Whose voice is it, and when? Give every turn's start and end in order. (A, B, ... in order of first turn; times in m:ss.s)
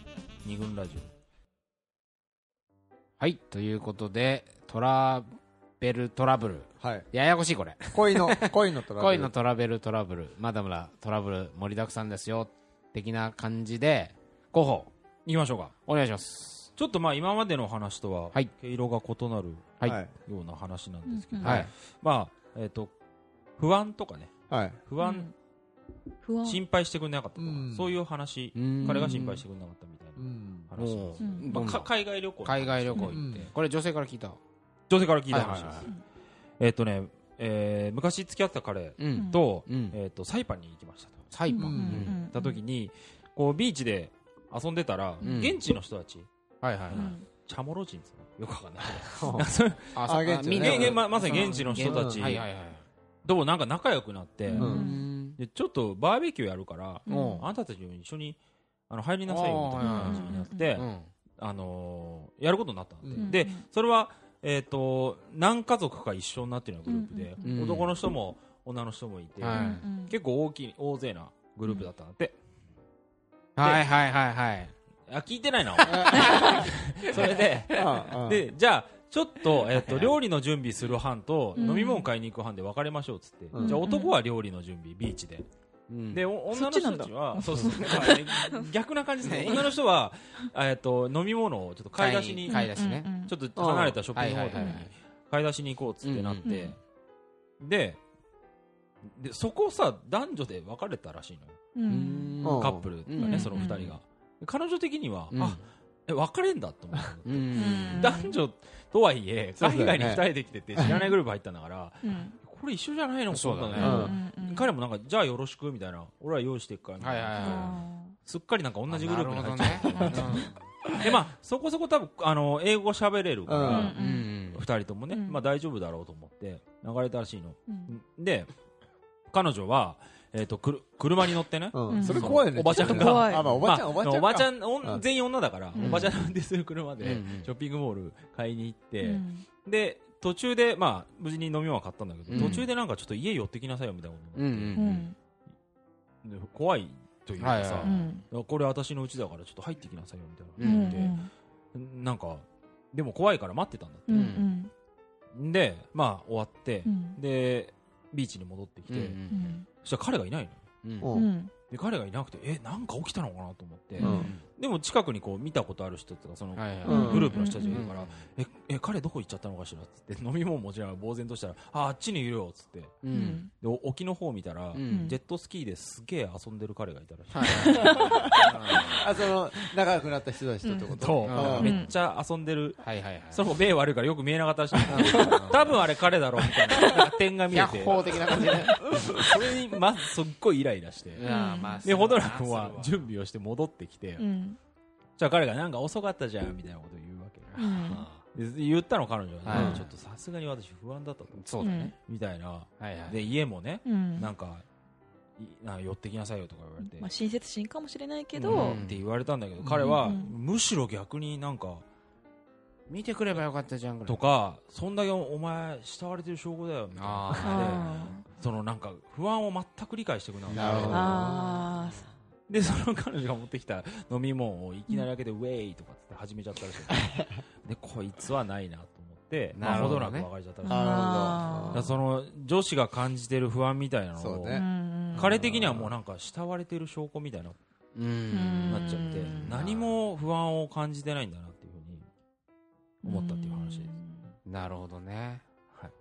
0:00.4-0:01.1 A
0:03.2-0:14.9 B
0:06.8-0:07.1 C
0:07.9-0:09.3 C
0:15.3-0:15.8 A
0:15.9-0:16.7 B
0:16.8-0:19.7 A
0:19.8-0:20.1 C
0:20.3-0:22.9 A
0:21.1-0:21.7 D
0:21.4-0:21.7 B
0:23.6-0:25.3 A
0:24.5-0:24.8 C
0:25.0-0:25.3 D
0:26.2-0:26.6 D
0:26.4-0:33.5 A
0:27.4-0:28.0 C
0:28.6-0:29.4 B
0:28.8-0:29.1 D
0:30.2-0:30.7 C
0:30.8-0:31.9 B
0:31.2-0:31.7 D
0:32.4-0:34.4 B
0:33.1-0:33.5 C
0:34.9-0:35.9 A
0:35.3-0:35.9 B
0:36.6-0:41.2 A
0:39.0-0:40.0 B
0:39.1-0:39.4 D
0:41.3-0:42.2 B
0:41.5-0:42.6 D
0:41.5-0:42.2 C
0:42.0-0:46.3 A
0:45.2-0:45.5 D
0:45.2-0:45.6 B
0:46.6-0:47.1 B
0:46.9-0:50.0 A
0:46.9-0:47.3 D
0:49.1-0:51.2 C
0:50.0-0:52.9 B
0:50.5-0:52.4 A
0:51.2-0:51.8 D
0:51.8-0:52.2 C
0:53.2-0:58.4 A
0:54.5-0:55.0 D
0:54.6-0:54.9 C
0:54.6-0:55.4 B
0:57.1-0:57.5 D
0:57.1-0:57.5 B
0:58.9-1:12.4 A
0:59.3-1:01.1 B
0:59.8-1:00.8 D
1:03.0-1:03.4 C
1:03.2-1:03.6 D
1:06.9-1:07.6 D
1:07.4-1:07.9 B
1:09.4-1:09.8 B
1:09.5-1:10.2 D
1:13.6-1:14.7 B
1:13.6-1:13.9 A
1:15.1-1:25.5 A
1:15.9-1:16.7 C
1:15.9-1:17.9 B
1:17.7-1:18.4 C
1:19.8-1:20.1 B
1:21.6-1:22.1 D
1:23.5-1:23.8 C
1:23.6-1:24.1 D
1:25.9-1:26.2 B
1:26.1-1:32.7 A
1:26.5-1:28.7 D
1:27.6-1:28.2 B
1:29.2-1:29.7 B
1:32.0-1:33.1 B
1:32.5-1:33.3 D
1:33.2-1:36.8 A
1:33.6-1:34.0 C
1:34.2-1:34.9 B
1:34.6-1:34.8 D
1:36.0-1:36.7 B
1:36.4-1:36.7 D
1:37.6-1:38.0 A
1:39.1-1:41.6 A
1:41.7-1:42.3 D
1:41.9-1:43.9 B
1:42.4-1:42.9 C
1:42.5-2:04.0 A
1:43.2-1:43.9 D
1:45.3-1:45.6 B
1:47.3-1:48.2 B
1:47.6-1:48.3 D
1:49.6-1:51.0 C
1:50.8-1:51.2 D
1:52.0-1:52.4 D
1:53.3-1:54.0 B
1:53.8-1:54.2 C
1:53.8-1:54.7 D
1:57.0-1:57.8 B
1:57.4-1:58.2 D
1:58.9-2:00.7 B
1:59.9-2:00.5 D
2:03.5-2:04.0 C
2:03.6-2:04.3 D
2:04.0-2:04.6 B
2:04.5-2:08.5 A
2:05.1-2:05.4 D
2:07.7-2:08.0 D
2:09.3-2:24.8 A
2:11.7-2:15.0 C
2:11.9-2:13.5 D
2:15.8-2:16.0 D
2:15.8-2:16.2 B
2:17.0-2:17.5 B
2:19.0-2:19.5 D
2:22.3-2:22.6 B
2:24.4-2:25.1 B
2:24.8-2:25.2 D
2:26.2-2:31.2 A
2:27.4-2:28.1 B
2:27.8-2:28.2 D
2:30.6-2:31.1 B
2:30.6-2:31.3 D
2:31.7-2:34.4 A
2:34.1-2:34.7 D
2:34.1-2:34.5 B
2:35.3-2:39.2 A
2:36.8-2:37.2 D
2:38.9-2:39.6 B
2:39.3-2:39.7 D
2:39.8-2:40.6 A
2:40.8-2:41.1 B
2:41.0-2:41.3 C
2:41.1-2:41.5 D
2:41.7-2:53.0 A
2:44.0-2:44.3 D
2:44.0-2:44.3 C
2:44.0-2:44.4 B
2:46.6-2:48.2 B
2:46.8-2:47.8 D
2:46.9-2:47.3 C
2:53.0-2:53.5 B
2:53.1-2:53.5 D
2:53.6-2:59.0 A
2:54.7-2:55.2 B
2:54.9-2:55.2 D
2:57.3-2:59.1 B
2:57.6-2:58.0 D
2:57.9-3:01.8 C
3:00.6-3:00.9 D
3:00.9-3:11.3 A
3:01.3-3:01.7 B
3:01.5-3:01.9 D
3:02.8-3:03.5 B
3:04.9-3:05.8 B
3:07.5-3:09.0 B
3:08.9-3:09.2 C
3:11.2-3:13.0 B
3:11.2-3:11.8 D
3:11.8-3:14.3 A
3:14.2-3:14.6 D
3:15.2-3:17.6 A
3:17.5-3:18.2 B
3:17.6-3:18.1 D
3:18.3-3:21.4 A
3:19.4-3:19.9 B
3:19.5-3:19.8 C
3:21.3-3:22.0 B
3:21.6-3:21.9 D
3:22.1-3:24.6 A
3:22.8-3:23.3 B
3:23.8-3:24.3 D
3:25.4-3:27.1 A
3:26.8-3:28.8 D
3:28.3-3:31.8 A
3:28.5-3:29.0 B
3:29.6-3:30.0 C
3:29.8-3:30.4 D
3:32.9-3:34.2 B
3:34.1-3:41.1 A
3:37.0-3:37.9 B
3:37.4-3:38.2 D
3:40.5-3:41.3 B
3:40.5-3:41.7 C
3:40.9-3:42.1 D
3:42.5-3:57.6 A
3:47.1-3:47.4 C
3:49.6-3:50.3 B
3:50.6-3:51.9 D
3:50.7-3:51.9 C
3:54.2-3:56.0 C
3:54.5-3:55.3 D
3:58.0-3:59.9 B
3:58.3-3:59.5 D
3:58.7-4:02.1 A
4:03.0-4:04.0 A
4:03.0-4:04.4 D
4:04.5-4:05.4 B